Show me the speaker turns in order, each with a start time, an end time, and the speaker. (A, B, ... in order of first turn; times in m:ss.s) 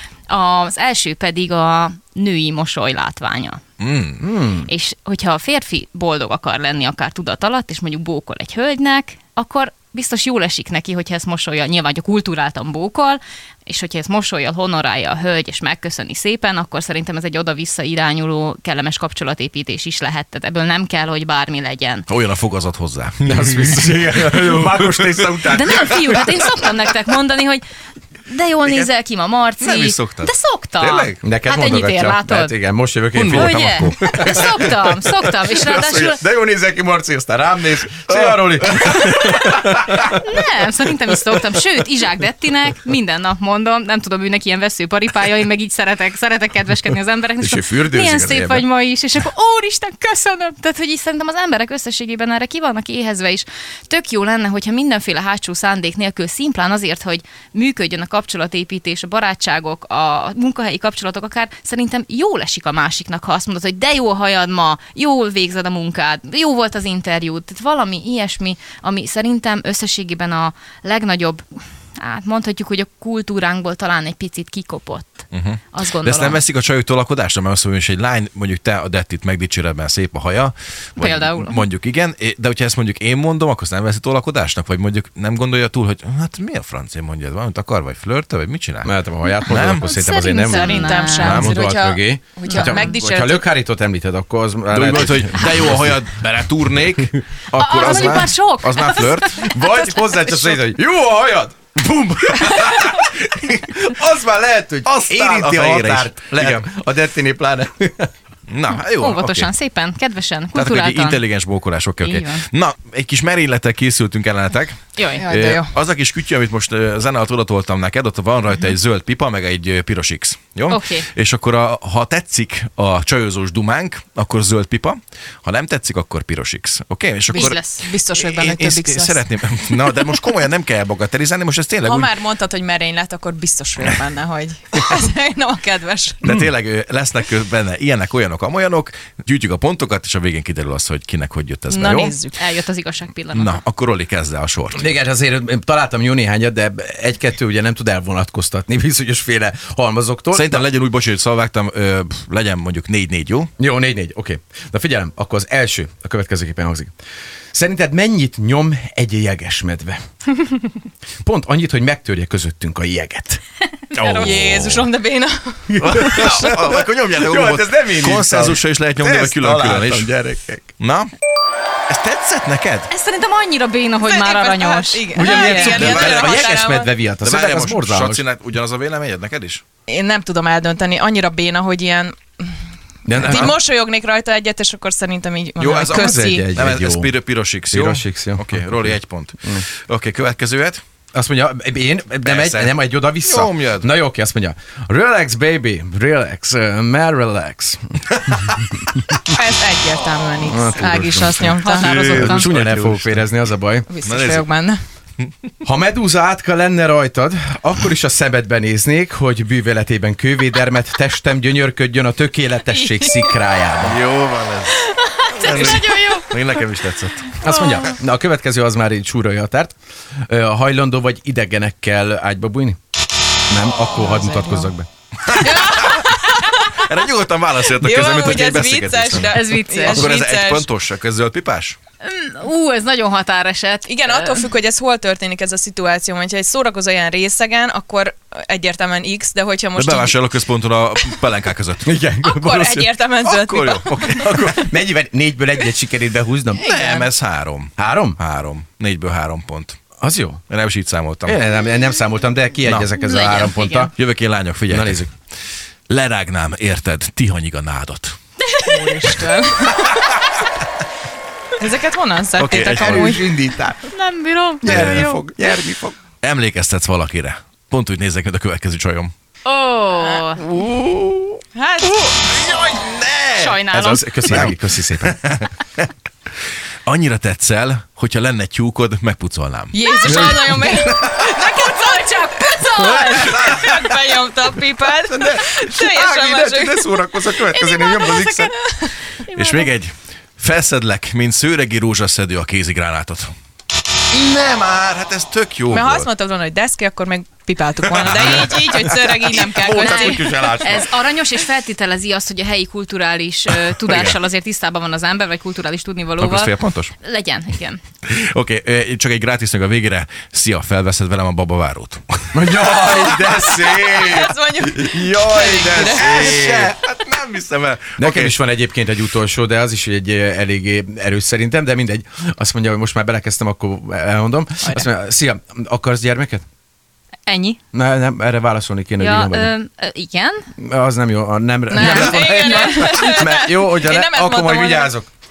0:00.3-0:03.6 A
0:03.8-0:04.2 B
0:04.2-0:04.7 C
0:04.6-0:22.1 A
0:22.1-0:23.7 B
0:23.2-0:26.3 C
0:25.4-0:27.6 A
0:28.3-0:32.6 A
0:28.6-0:28.9 B
0:29.6-0:31.2 B
0:31.2-0:34.8 C
0:33.1-0:34.7 B
0:33.3-0:36.2 A
0:35.5-0:40.0 C
0:38.1-0:39.5 B
0:40.1-1:11.4 A
0:47.4-0:48.7 C
1:12.0-1:16.4 A
1:15.3-1:28.9 B
1:21.0-1:21.6 A
1:28.8-1:36.0 C
1:29.5-1:29.9 B
1:29.8-1:31.4 A
1:30.5-1:33.4 D
1:31.2-1:31.5 B
1:32.5-1:32.9 A
1:34.7-1:38.1 B
1:37.1-1:48.1 C
1:37.5-1:40.5 A
1:42.4-1:43.6 B
1:44.8-1:46.6 B
1:48.5-1:49.5 B
1:48.8-1:51.2 A
1:50.5-2:12.2 B
1:52.0-1:52.4 A
1:55.0-1:55.3 A
1:55.2-1:55.7 D
2:00.7-2:01.1 A
2:07.3-2:07.8 A
2:07.3-2:09.2 D
2:11.8-2:16.3 D
2:16.2-2:22.1 B
2:21.7-2:22.4 D
2:21.9-2:23.6 A
2:23.3-2:24.9 B
2:24.7-2:30.6 C
2:30.3-2:33.5 B
2:33.6-2:36.9 C
2:37.5-2:40.0 C
2:41.2-2:43.4 C
2:43.9-2:44.9 B
2:43.9-2:45.7 D
2:45.7-2:50.7 C
2:45.8-2:50.1 B
2:50.8-2:51.1 B
2:51.9-2:52.9 B
2:52.9-2:55.9 A
2:54.0-2:56.9 D
2:55.1-2:58.2 C
2:55.7-2:56.5 B
2:57.2-2:59.6 B
2:59.9-3:02.5 D
3:03.0-3:03.6 C
3:03.1-3:06.4 D
3:03.2-3:03.5 B
3:05.6-3:10.8 B
3:05.8-3:08.9 C
3:11.1-3:18.6 C
3:12.2-3:13.9 B
3:19.3-3:22.2 D
3:20.4-3:23.9 C
3:21.5-3:22.5 A
3:21.7-3:23.2 B
3:23.9-3:24.8 D
3:24.0-3:24.5 B
3:25.6-3:34.0 C
3:32.9-3:33.2 D
3:33.8-3:37.8 B
3:35.2-3:36.3 A
3:35.5-3:36.0 D
3:37.4-3:39.7 C
3:40.3-3:42.8 C
3:43.5-3:44.9 C
3:43.9-3:44.7 D
3:45.2-3:51.8 B
3:45.4-3:46.7 D
3:47.8-3:50.7 D
3:49.3-3:50.1 A
3:52.0-3:54.5 A
3:53.9-4:00.2 D
3:59.7-4:02.0 B
4:01.8-4:02.9 C
4:02.2-4:04.5 D
4:03.2-4:04.6 B
4:03.9-4:06.7 C
4:06.6-4:09.8 B
4:06.6-4:07.1 D
4:07.8-4:08.2 C
4:10.0-4:10.4 C
4:10.5-4:11.4 B
4:11.2-4:13.9 C
4:13.0-4:13.9 A
4:14.0-4:15.1 B
4:14.7-4:15.1 C
4:15.9-4:18.1 B
4:18.6-4:20.2 D
4:21.6-4:23.3 D
4:22.4-4:23.2 B
4:22.6-4:23.8 C
4:23.9-4:25.0 A
4:24.6-4:25.9 C
4:24.6-4:25.6 B
4:26.2-4:29.1 B
4:29.4-4:30.4 A
4:30.0-4:30.2 D
4:30.6-4:31.2 B
4:31.5-4:32.1 D
4:31.8-4:33.6 B
4:33.4-4:34.3 A
4:33.7-4:35.3 C
4:34.3-4:35.5 B
4:36.8-4:41.1 B
4:39.7-4:49.0 D
4:39.8-4:43.4 A
4:40.1-4:40.5 C
4:43.4-4:43.7 B
4:45.9-4:48.3 B
4:46.6-4:47.6 C
4:47.8-4:48.5 A
4:49.2-4:49.7 A
4:49.3-4:53.3 B
4:54.1-4:56.1 B
4:55.7-5:00.5 D
4:57.9-5:00.9 B
4:59.8-5:07.8 A
5:03.9-5:04.2 B
5:06.2-5:06.9 B
5:08.1-5:18.4 B
5:12.3-5:14.3 C
5:14.0-5:16.7 D
5:15.8-5:16.7 C
5:18.0-5:26.4 C
5:27.3-5:27.6 A
5:27.7-5:29.5 C
5:29.0-5:30.5 A
5:30.6-5:35.1 C
5:31.7-5:33.1 A
5:31.7-5:35.0 D